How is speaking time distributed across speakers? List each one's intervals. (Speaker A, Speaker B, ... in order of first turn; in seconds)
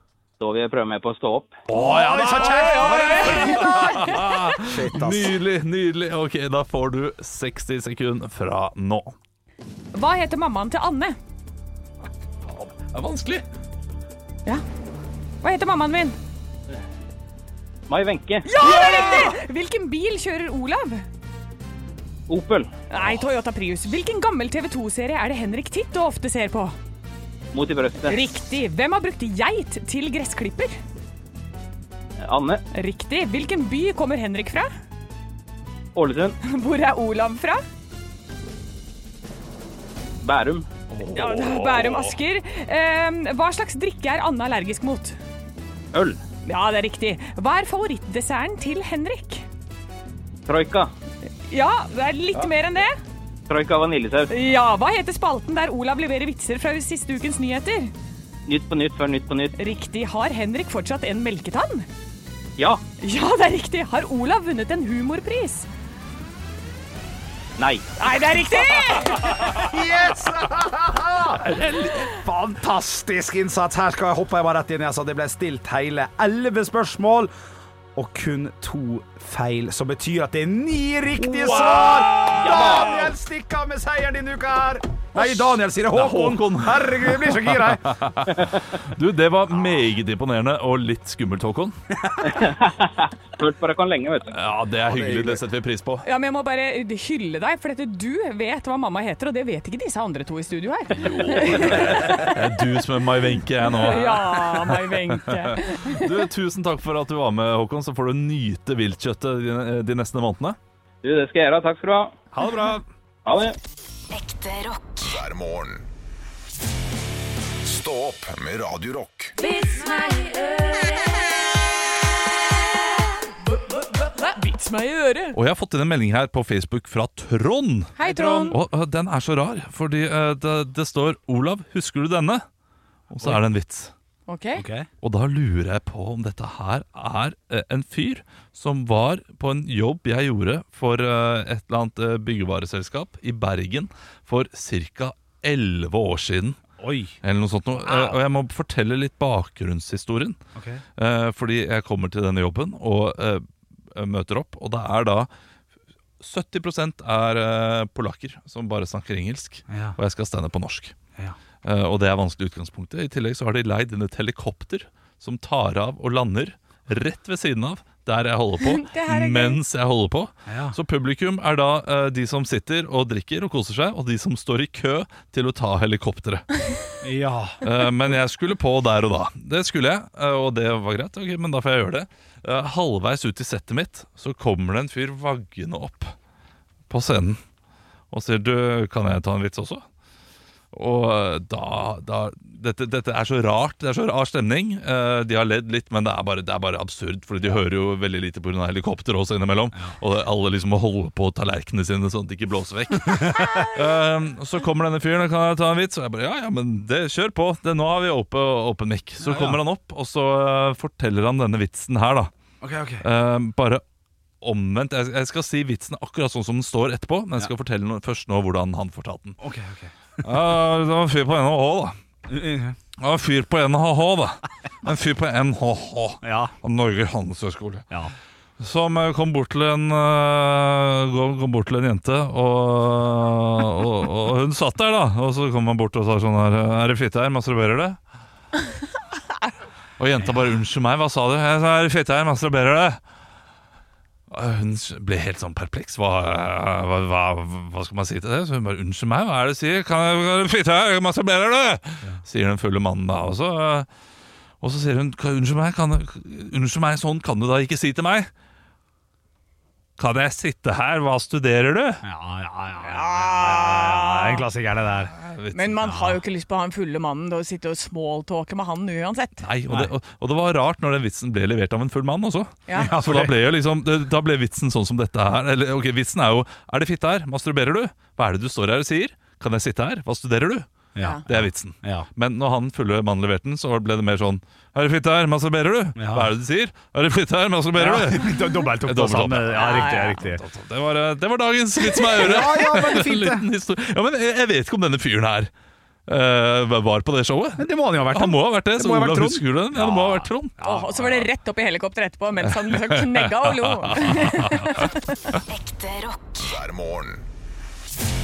Speaker A: 0.4-1.6, 17.9-18.5, 22.3-22.7, 27.5-28.3, 32.2-32.6, 36.0-36.4, 40.2-40.7, 45.9-46.2, 50.5-50.9, 53.5-54.3, 58.5-59.5, 62.6-62.8, 67.6-67.9, 82.4-82.8, 92.2-94.3, 111.0-112.2, 113.2-113.6
Speaker B: 1.7-9.1, 12.5-13.4, 18.6-19.4, 40.9-42.1, 71.4-72.1, 81.2-83.1, 85.2-91.8, 94.3-96.0, 101.0-110.6, 125.3-132.4, 133.1-133.9, 135.0-146.6, 147.2-150.4, 151.0-155.3, 156.2-161.0, 161.6-176.5, 177.6-186.2, 186.9-187.4, 188.1-189.8, 190.7-212.3, 213.0-213.8, 214.4-219.4, 220.2-222.0, 223.0-227.9, 228.6-238.0, 240.0-243.0, 244.3-253.9, 254.6-258.3, 260.0-262.0, 265.1-266.1, 269.4-280.7, 281.3-288.3, 288.8-295.5, 296.1-300.6, 302.6-305.4
Speaker C: 1.7-5.3, 69.4-77.3, 78.0-88.0, 94.9-95.4, 112.4-112.8, 128.1-128.5, 134.6-134.9, 146.8-147.2, 150.6-150.8, 159.7-160.0, 170.5-170.8, 177.0-177.6, 209.2-209.6, 212.6-213.1, 219.4-220.4, 222.3-222.8, 226.2-226.5, 262.0-265.1, 272.8-273.4, 280.9-282.1, 286.0-286.3, 287.8-290.4, 292.1-293.5, 297.6-301.2
Speaker D: 1.8-4.2, 9.9-11.2, 15.4-16.2, 18.4-21.0, 22.9-26.8, 28.1-30.7, 32.7-34.7, 36.4-37.6, 41.1-45.2, 46.5-49.5, 51.5-53.0, 54.3-57.9, 59.5-61.9, 63.0-65.7, 68.0-69.6, 96.0-102.4, 103.7-106.1, 119.4-120.6, 124.0-125.4, 128.0-128.6, 134.3-134.7, 168.6-169.6, 262.8-264.4, 265.5-269.4, 272.7-272.9, 289.6-290.2, 300.6-305.4
Speaker E: 114.2-115.9, 117.6-119.4, 306.2-307.2